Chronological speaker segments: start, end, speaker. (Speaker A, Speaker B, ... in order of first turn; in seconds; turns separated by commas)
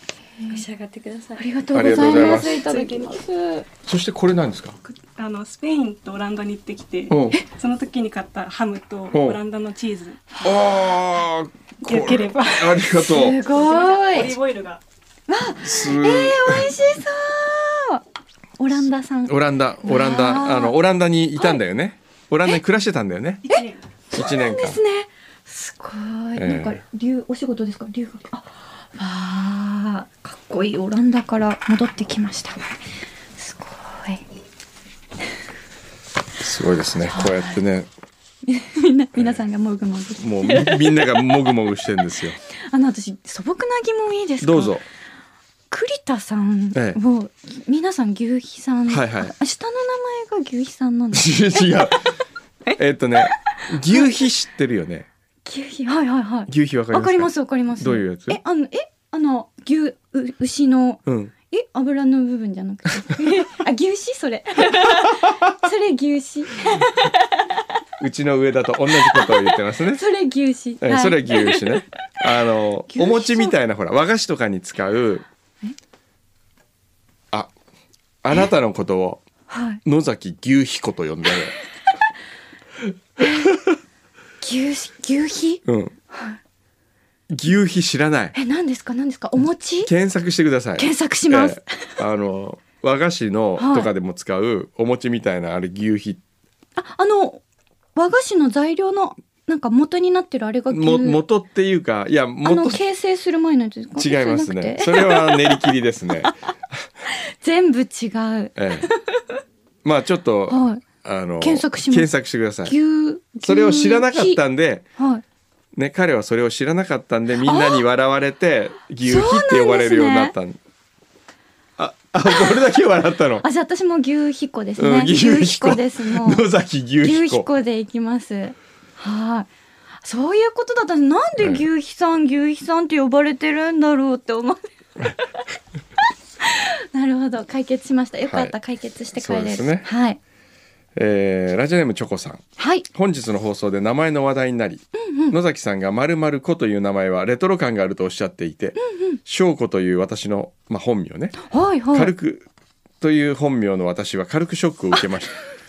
Speaker A: 0.4-0.7, Speaker B: 0.5-1.5, Speaker A: 1.4-3.7, Speaker C: 1.7-2.6, Speaker D: 1.9-2.5, Speaker B: 2.0-3.2, Speaker C: 3.8-4.8, Speaker D: 4.8-10.2, Speaker C: 7.1-7.4, Speaker C: 9.1-9.4, Speaker A: 10.4-10.8, Speaker C: 10.4-13.4, Speaker D: 11.9-14.8, Speaker A: 12.9-14.3, Speaker A: 15.3-18.0, Speaker C: 15.6-16.8, Speaker A: 18.6-20.8, Speaker C: 18.7-23.5, Speaker D: 23.5-23.8, Speaker A: 23.5-32.6, Speaker C: 24.1-24.8, Speaker C: 26.4-26.8, Speaker A: 33.4-34.2, Speaker C: 36.4-37.9, Speaker A: 37.1-37.4, Speaker A: 38.5-41.2, Speaker C: 40.2-42.4, Speaker A: 42.5-44.8, Speaker C: 44.4-44.9, Speaker A: 45.7-52.0, Speaker C: 46.7-47.0, Speaker C: 48.9-49.3, Speaker C: 51.1-52.1, Speaker C: 52.8-55.1, Speaker A: 55.5-67.2, Speaker C: 56.5-58.4, Speaker C: 61.1-61.3, Speaker C: 68.0-70.0, Speaker A: 69.1-71.8, Speaker C: 70.8-75.3, Speaker A: 72.9-73.5, Speaker C: 78.2-79.2, Speaker A: 79.5-79.8, Speaker C: 79.8-81.5, Speaker A: 83.2-83.5, Speaker C: 83.2-83.8, Speaker A: 84.4-86.4, Speaker C: 85.7-85.9, Speaker C: 87.3-88.3, Speaker A: 88.3-89.9, Speaker C: 89.8-96.2, Speaker A: 90.8-91.9, Speaker A: 93.6-93.9, Speaker A: 96.8-97.4, Speaker A: 98.0-101.2, Speaker C: 100.7-102.8, Speaker A: 102.4-105.7, Speaker C: 104.0-106.3, Speaker A: 107.1-109.0, Speaker C: 108.6-108.9, Speaker C: 109.8-112.8, Speaker A: 110.5-110.8, Speaker A: 111.4-112.1, Speaker A: 112.7-114.4, Speaker C: 113.4-114.8, Speaker A: 115.0-115.2, Speaker C: 115.8-120.6, Speaker A: 117.4-117.8, Speaker A: 119.0-120.3, Speaker C: 121.8-123.5, Speaker A: 123.4-126.5, Speaker C: 124.8-127.5, Speaker A: 127.0-129.5, Speaker A: 130.0-134.6, Speaker C: 131.4-131.7, Speaker A: 136.4-140.2, Speaker C: 138.3-138.5, Speaker C: 139.2-139.9, Speaker C: 140.9-152.5, Speaker A: 142.6-142.9, Speaker A: 144.9-145.4, Speaker A: 148.8-149.2, Speaker A: 151.4-152.1, Speaker C: 153.0-155.4